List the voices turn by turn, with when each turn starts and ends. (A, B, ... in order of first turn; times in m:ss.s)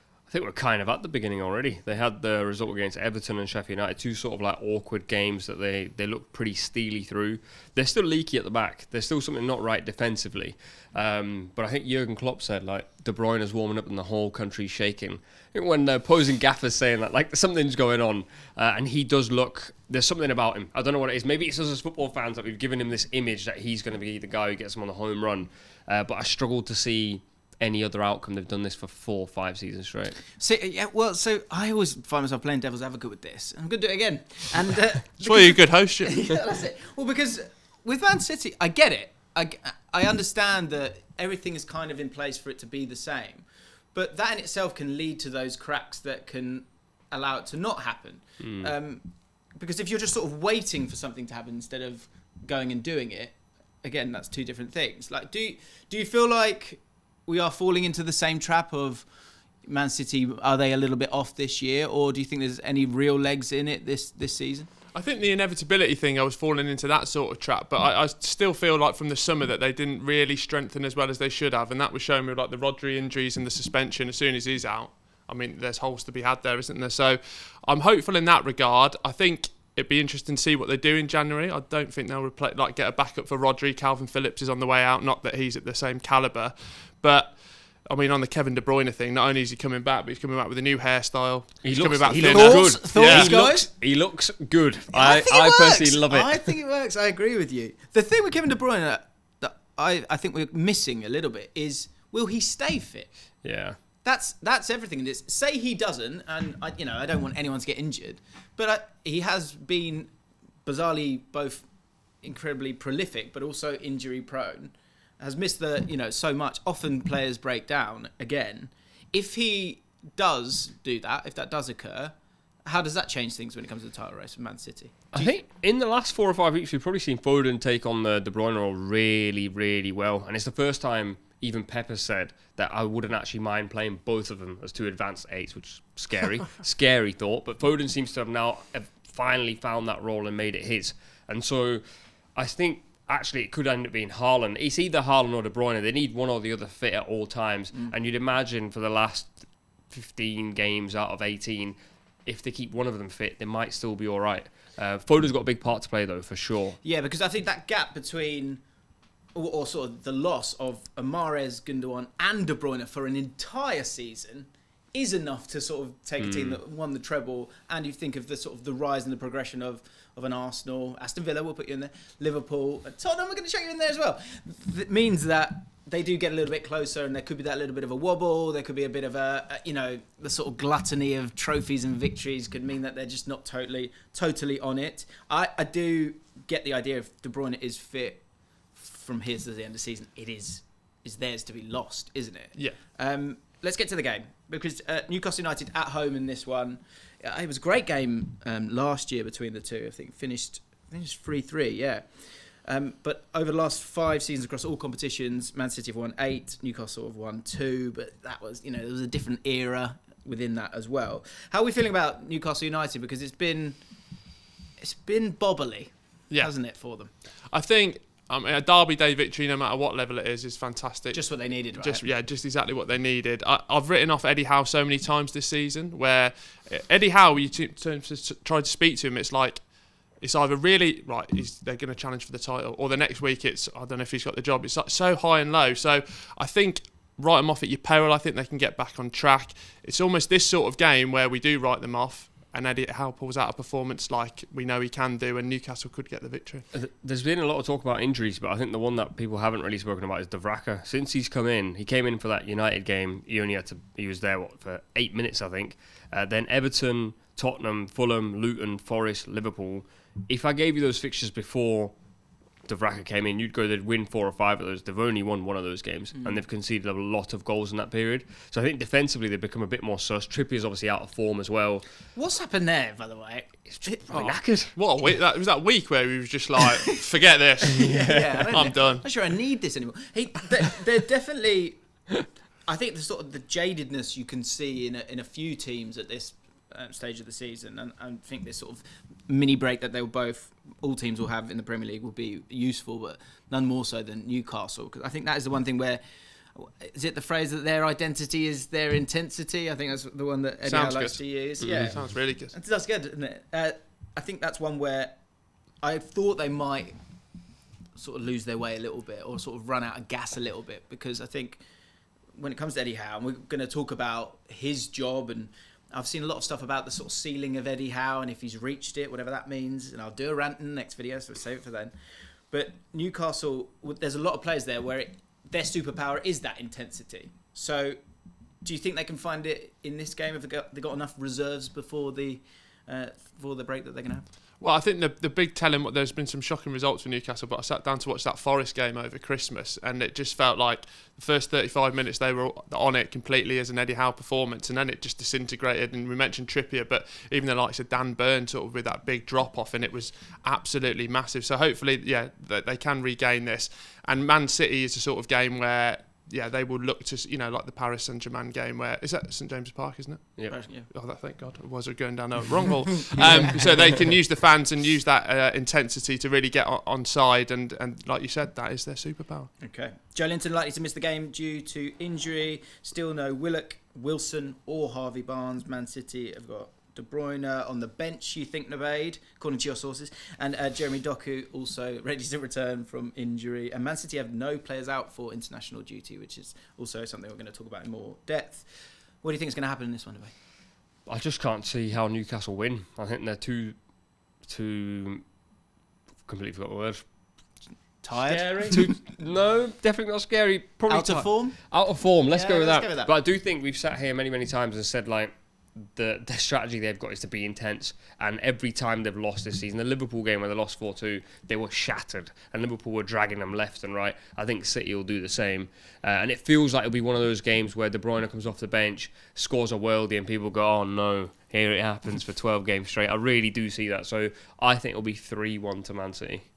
0:00.3-0:30.2 A
0:30.4-0:59.1 B
0:35.2-0:36.2 C
0:48.4-0:48.7 A
0:59.6-1:04.7 B
1:04.9-1:33.3 C
1:31.6-1:36.5 A
1:32.1-1:33.7 B
1:34.9-1:43.1 B
1:43.4-1:43.8 A
1:44.0-1:50.1 B
1:50.6-1:51.7 B
1:52.2-2:05.4 B
2:05.1-2:21.8 A
2:22.4-2:36.8 A
2:36.8-2:38.6 B
2:39.4-3:33.8 B
2:46.2-2:46.6 A
3:34.8-3:37.1 B
3:36.3-3:36.6 C
3:37.5-4:06.6 C
3:41.1-3:42.0 B
4:06.7-4:22.0 A
4:22.7-4:31.8 A
4:32.2-4:34.3 B
4:33.7-4:34.8 A
4:34.1-4:39.0 C
4:37.8-4:41.8 B
4:37.8-4:38.4 A
4:42.6-4:56.0 B
4:56.6-5:05.2 B
5:00.6-5:02.5 C
5:01.6-5:02.0 A
5:05.8-5:07.0 B
5:08.0-5:11.6 B
5:12.4-5:21.9 B
5:22.5-5:28.0 B
5:28.6-5:34.3 B
5:34.6-6:09.5 C
6:00.5-6:00.9 B
6:03.2-6:03.6 B
6:09.6-6:28.7 B
6:29.2-6:30.3 B
6:31.1-6:33.8 A
6:34.4-6:35.2 A
6:36.3-6:37.0 A
6:38.0-6:39.0 B
6:38.2-7:06.4 A
6:40.9-6:41.6 B
6:42.2-6:43.1 B